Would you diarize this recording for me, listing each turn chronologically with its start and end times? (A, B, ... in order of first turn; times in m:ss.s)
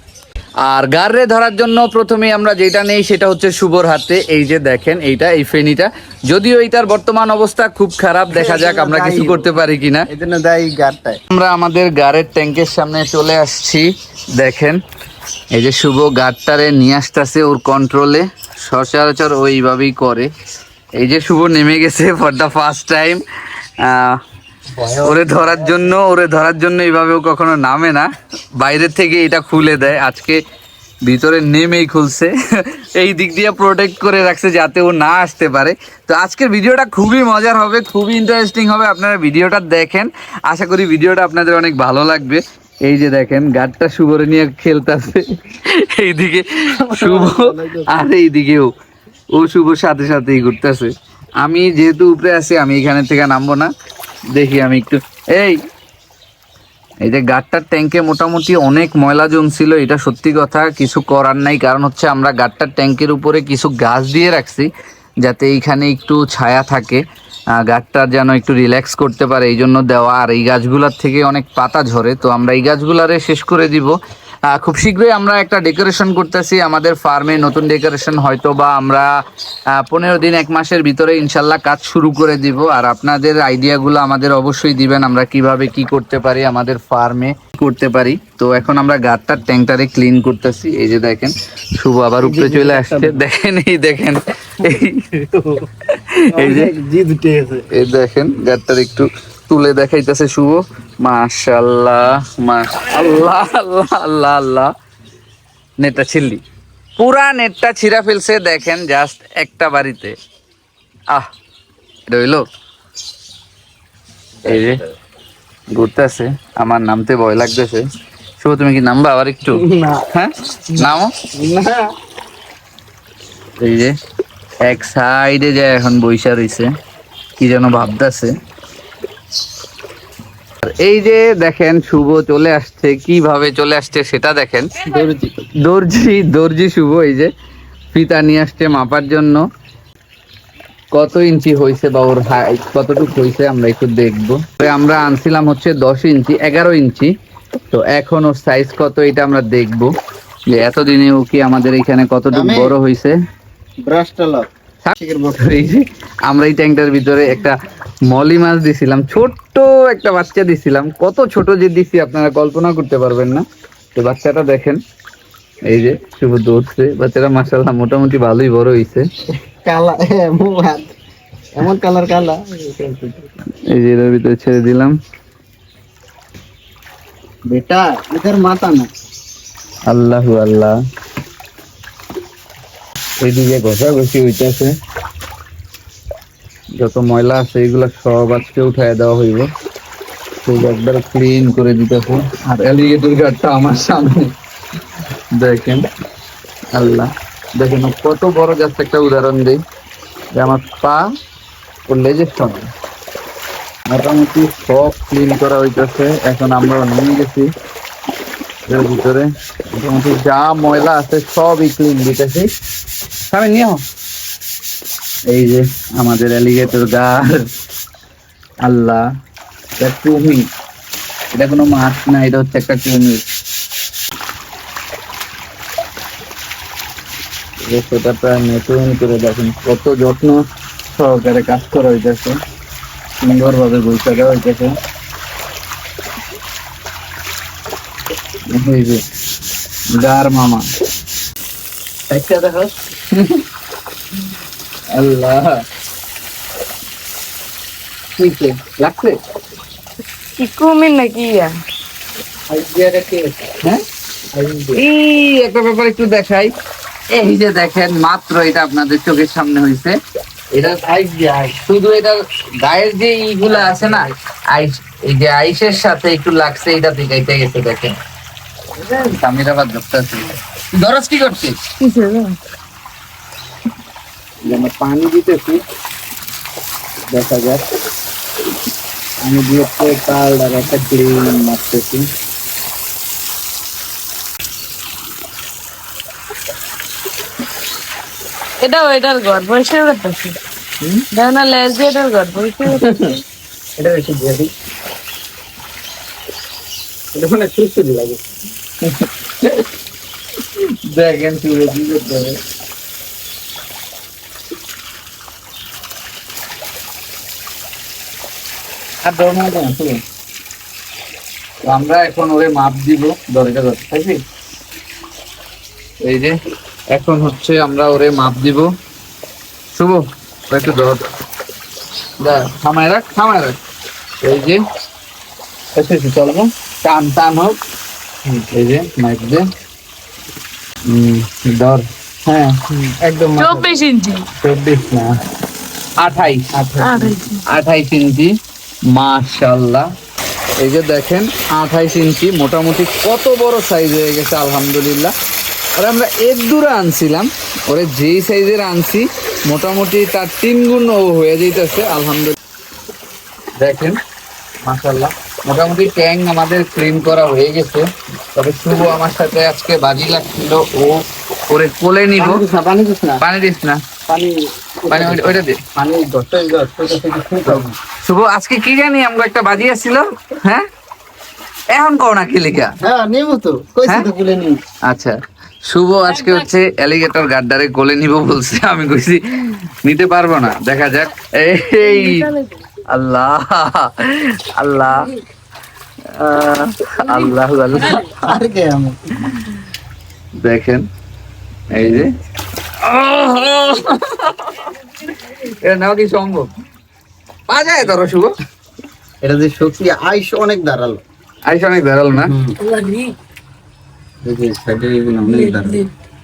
0:00.6-0:10.1 A
0:08.3-0:09.5 B
0:10.1-0:11.2 B
0:11.3-0:14.8 A
0:15.5-0:20.3 A
0:21.0-0:23.2 A
0:23.8-0:24.2 A
0:24.7-0:25.9 B
0:25.0-0:30.4 A
0:31.0-0:48.7 A
0:46.8-0:47.9 B
0:49.4-0:53.7 A
0:54.3-0:55.6 A
0:57.0-1:04.7 A
1:05.2-1:07.0 A
1:07.6-1:14.0 A
1:14.5-1:19.1 A
1:19.7-1:35.2 A
1:32.2-1:33.2 B
1:35.9-1:36.7 A
1:36.3-1:37.6 B
1:37.7-1:44.7 A
1:45.8-1:46.4 A
1:47.0-1:50.2 A
1:52.1-1:52.4 A
1:54.4-1:54.8 A
1:55.7-1:57.8 A
1:58.4-2:01.2 A
1:59.5-2:00.1 B
2:01.4-2:01.8 B
2:03.6-2:03.9 A
2:04.6-2:06.7 A
2:07.4-2:08.3 A
2:10.6-2:17.3 A
2:14.8-2:15.2 B
2:17.9-2:19.4 A
2:20.9-2:27.1 A
2:27.7-2:29.9 A
2:30.5-2:33.2 A
2:32.3-2:32.7 B
2:33.8-2:34.5 B
2:34.8-2:37.5 A
2:35.0-2:35.5 B
2:38.1-2:44.8 A
2:45.7-2:49.0 A
2:49.6-2:50.9 B
2:51.6-2:53.3 B
2:53.7-2:55.0 A
2:57.5-2:58.9 B
2:59.9-3:00.8 A
3:03.2-3:04.7 A
3:06.8-3:09.5 A
3:10.4-3:14.3 A
3:15.3-3:15.8 A
3:16.7-3:19.6 A
3:20.3-3:21.1 A
3:21.9-3:22.7 A
3:23.9-3:27.5 A
3:28.7-3:32.5 A
3:33.3-3:33.8 A
3:35.3-3:37.5 A
3:38.6-3:39.0 A
3:39.8-3:40.4 A
3:41.3-3:43.2 A
3:47.6-3:50.4 A
3:51.0-3:52.4 A
3:53.2-3:54.7 A
3:58.5-3:59.0 A
3:59.9-4:00.6 A
4:02.1-4:02.7 B
4:03.1-4:03.4 A
4:04.9-4:05.6 A
4:08.2-4:09.2 A
4:10.4-4:11.5 C
4:12.5-4:13.5 B
4:14.3-4:14.8 B
4:14.8-4:16.5 A
4:17.1-4:20.0 A
4:20.5-4:27.9 A
4:20.8-4:21.4 B
4:28.9-4:31.6 A
4:31.8-4:32.4 C
4:34.4-4:35.6 A
4:37.1-4:37.6 A
4:39.2-4:42.0 A
4:48.6-4:50.4 C
4:51.1-4:53.2 C
4:53.8-4:54.5 B
4:57.2-4:58.2 B
4:58.8-4:59.6 A
5:00.6-5:02.4 A
5:09.0-5:10.0 A
5:11.6-5:14.2 A
5:16.0-5:16.3 A
5:16.9-5:18.7 A
5:19.7-5:21.0 A
5:22.2-5:23.6 A
5:24.2-5:24.6 A
5:25.7-5:27.6 A
5:28.3-5:29.5 A
5:30.8-5:33.3 A
5:32.7-5:33.7 B
5:33.4-5:34.2 C
5:34.4-5:35.1 A
5:36.0-5:38.3 A
5:36.7-5:37.1 B
5:36.8-5:37.4 C
5:38.9-5:39.9 A
5:40.6-5:45.1 A
5:45.8-5:52.4 A
5:53.6-5:54.0 A
5:54.6-6:02.4 A
6:02.2-6:03.2 B
6:03.2-6:03.8 A
6:04.1-6:07.7 B
6:04.9-6:05.6 A
6:07.5-6:10.6 A
6:11.7-6:12.7 A
6:12.8-6:14.6 B
6:14.9-6:15.2 A
6:15.7-6:22.2 A
6:16.1-6:16.4 C
6:21.8-6:22.6 C
6:22.9-6:25.1 A
6:26.1-6:28.2 A
6:27.0-6:28.1 C
6:28.2-6:29.1 B
6:30.4-6:30.8 A
6:31.7-6:32.1 A
6:32.8-6:34.7 A
6:35.3-6:36.5 A
6:37.5-6:38.3 A
6:39.2-6:41.0 B
6:41.5-6:42.3 A
6:42.1-6:42.5 B
6:42.6-6:43.1 C
6:44.2-6:45.8 B
6:45.3-6:45.9 C